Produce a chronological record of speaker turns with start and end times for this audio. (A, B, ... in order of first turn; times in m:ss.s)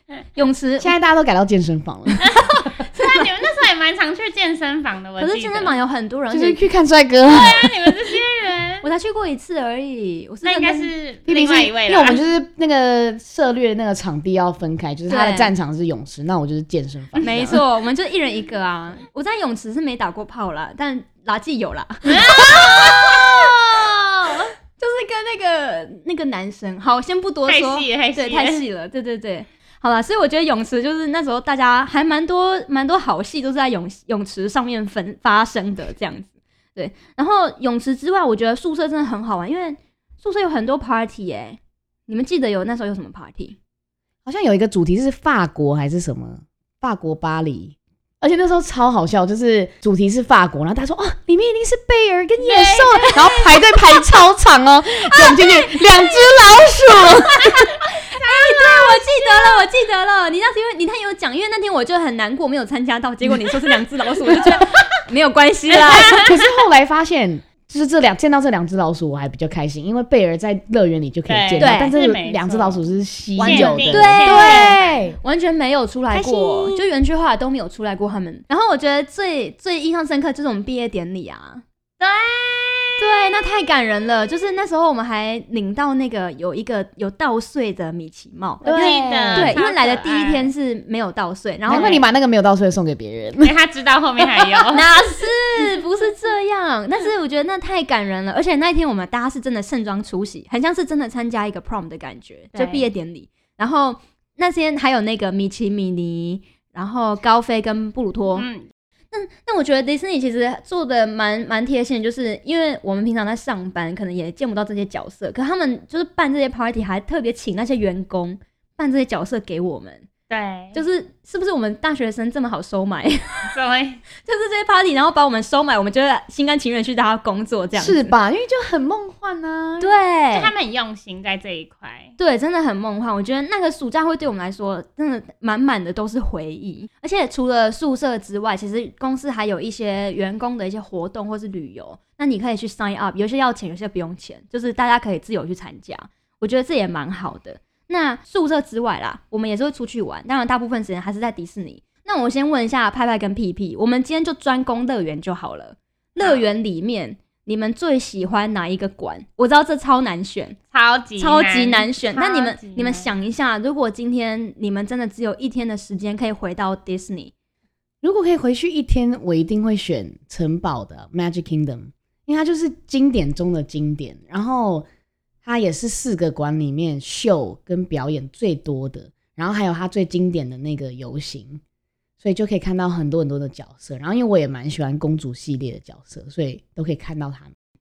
0:00.4-0:00.9 A
0:00.8-0:02.4 B
0:02.3-0:03.3 A
0:02.9-0:05.8 C
0:05.2-0:06.6 A
0:06.3-0:07.9 B
0:07.2-0:08.8 C
0:08.8-0:10.9 A
0:10.4-0:12.2 C
0:11.3-0:17.6 B
0:15.1-0:15.5 A
0:17.2-0:23.5 A
0:22.1-0:24.5 C
0:24.8-0:43.6 A
0:27.5-0:28.6 C
0:44.2-0:57.7 B
0:52.4-0:53.6 C
0:55.2-0:56.4 A
0:58.1-1:06.3 A
0:58.1-0:59.6 C
1:05.9-1:06.4 C
1:05.9-1:15.2 B
1:11.3-1:12.8 C
1:11.6-1:12.0 A
1:13.4-1:21.6 A
1:13.4-1:14.9 C
1:16.2-1:16.8 B
1:22.0-1:23.1 C
1:23.0-1:28.8 A
1:28.6-1:29.6 B
1:28.6-1:30.5 C
1:29.3-1:32.0 A
1:31.7-1:33.5 B
1:31.7-1:32.0 C
1:33.4-1:34.8 C
1:34.6-1:48.5 A
1:42.5-1:42.9 C
1:48.4-1:48.7 C
1:49.1-2:00.1 A
2:00.3-2:00.8 C
2:00.7-2:03.5 A
2:03.5-2:04.0 C
2:04.2-2:08.1 A
2:07.8-2:10.0 B
2:09.8-2:10.5 A
2:10.3-2:12.1 C
2:12.2-2:40.6 A
2:36.2-2:36.4 C
2:40.7-2:43.1 C
2:41.2-2:47.3 A
2:48.0-2:54.9 B
2:55.4-3:01.6 B
3:02.2-3:07.5 B